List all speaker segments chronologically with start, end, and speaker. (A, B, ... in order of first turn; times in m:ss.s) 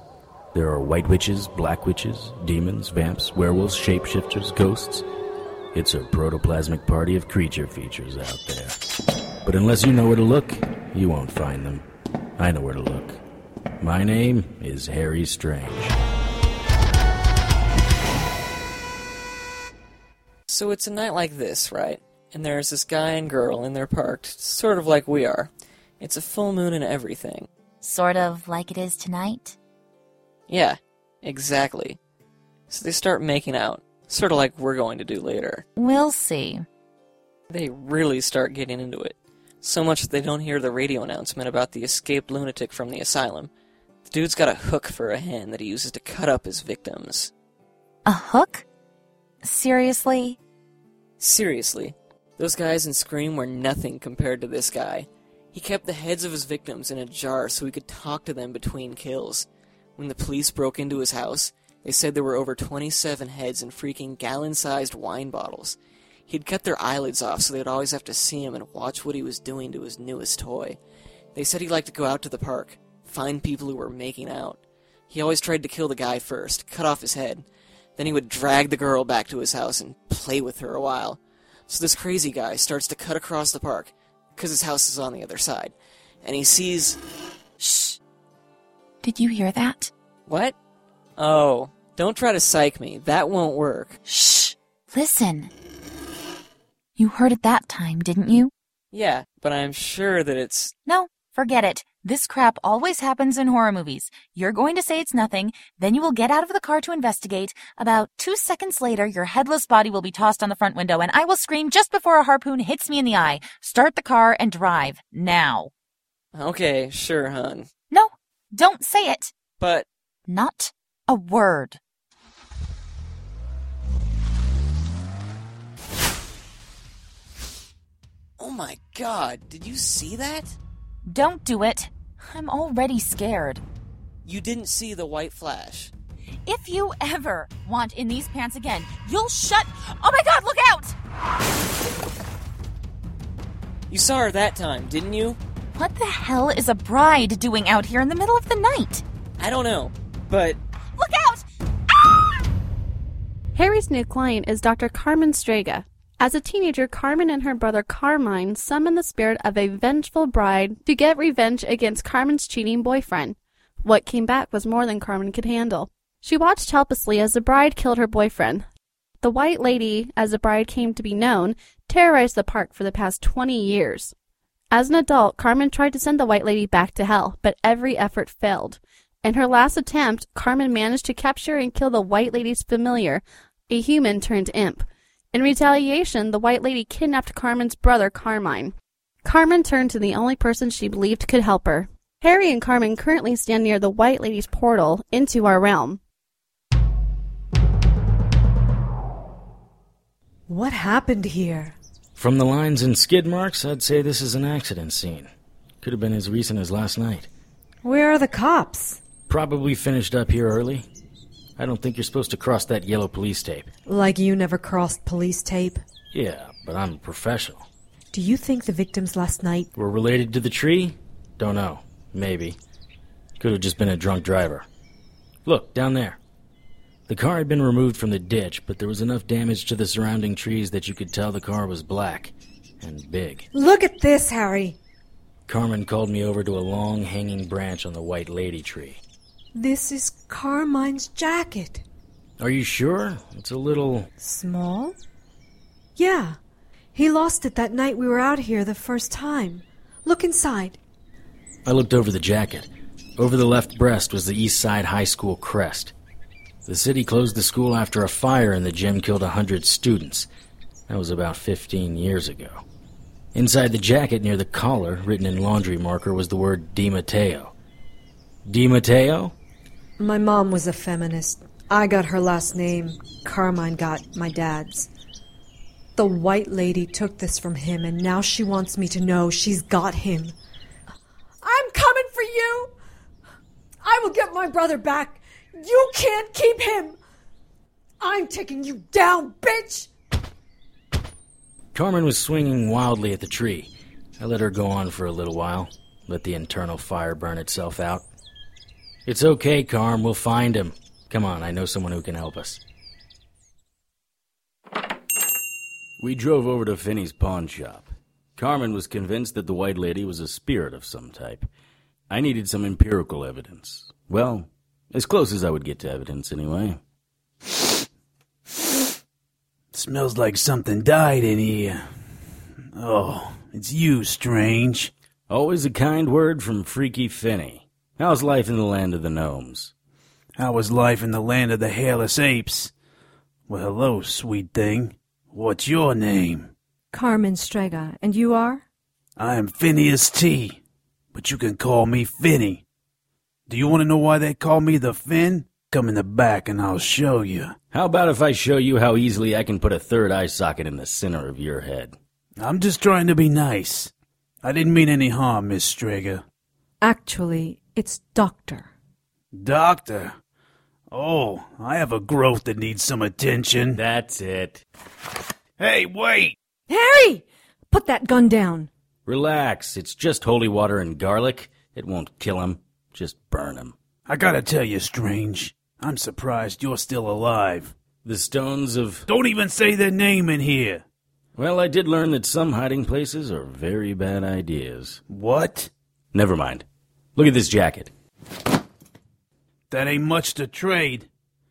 0:00.5-0:05.0 A
0:05.7-0:08.8 A
0:09.4-0:11.8 A
0:12.4-0:13.2 A
0:13.8-0:16.0 A
0:20.5-0:27.5 B
0:27.8-0:29.6 C
0:30.5-0:32.0 B
0:32.7-0:35.6 B
0:35.8-0:36.6 C
0:37.5-0:43.5 B
0:44.0-0:47.3 B
0:48.0-0:48.6 C
0:49.4-0:50.4 C
0:51.2-1:05.8 B
1:06.3-1:10.8 B
1:11.3-1:14.6 B
1:15.1-1:17.4 B
1:18.0-1:27.0 B
1:27.6-1:28.0 C
1:29.0-1:29.9 C
1:30.3-1:30.5 B
1:31.2-1:34.0 B
1:34.1-1:35.5 C
1:37.0-1:38.5 C
1:38.9-1:40.7 B
1:40.9-1:55.7 C
1:56.3-1:57.7 B
1:57.9-1:59.3 C
1:59.6-1:59.8 B
2:00.3-2:01.8 C
2:08.4-2:10.6 B
2:11.1-2:13.6 C
2:14.2-2:15.9 B
2:16.5-2:20.9 C
2:23.9-2:25.4 B
2:25.7-2:29.0 C
2:29.4-2:30.6 B
2:31.0-2:31.4 C
2:33.5-2:48.7 D
2:49.2-2:54.1 D
2:54.7-3:08.7 D
3:09.2-3:16.0 D
3:20.5-3:21.8 E
3:22.2-3:25.3 A
3:25.8-3:27.3 A
3:27.8-3:29.0 E
3:29.3-3:30.9 A
3:31.6-3:33.7 A
3:33.8-3:35.8 E
3:36.1-3:37.7 A
3:38.1-3:39.7 E
3:39.8-3:42.6 A
3:43.4-3:44.7 A
3:45.4-3:46.2 A
3:47.1-3:53.5 A
3:53.5-3:54.8 E
3:55.5-3:59.0 A
3:59.6-4:01.8 E
4:02.4-4:04.1 A
4:04.2-4:05.0 E
4:06.0-4:06.4 E
4:06.9-4:10.8 E
4:11.6-4:15.9 A
4:16.6-4:20.3 A
4:20.9-4:22.6 A
4:23.3-4:27.5 A
4:28.4-4:29.3 A
4:30.0-4:34.9 E
4:36.0-4:40.3 E
4:41.4-4:42.7 E
4:43.8-4:47.0 E
4:48.0-4:49.9 E
4:51.7-4:58.0 A
4:59.0-5:02.6 A
5:06.0-5:11.5 A
5:12.1-5:16.8 A
5:19.7-5:21.8 F
5:22.7-5:24.9 F
5:25.3-5:29.7 A
5:30.4-5:32.7 F
5:33.5-5:36.5 F
5:36.9-5:38.6 E
5:39.2-5:40.6 F
5:41.1-5:42.6 F
5:43.5-5:47.5 F
5:47.7-5:52.0 A
5:52.4-5:53.9 F
5:54.4-5:56.2 F
5:56.8-5:58.7 E
5:59.3-6:00.2 F
6:00.9-6:03.8 F
6:03.7-6:04.6 A
6:05.6-6:06.4 F
6:06.7-6:08.7 E
6:09.0-6:13.7 A
6:14.1-6:17.7 F
6:18.0-6:19.1 A
6:19.1-6:20.8 F
6:21.4-6:25.0 A
6:25.1-6:25.7 F
6:26.1-6:27.9 A
6:29.7-6:31.1 F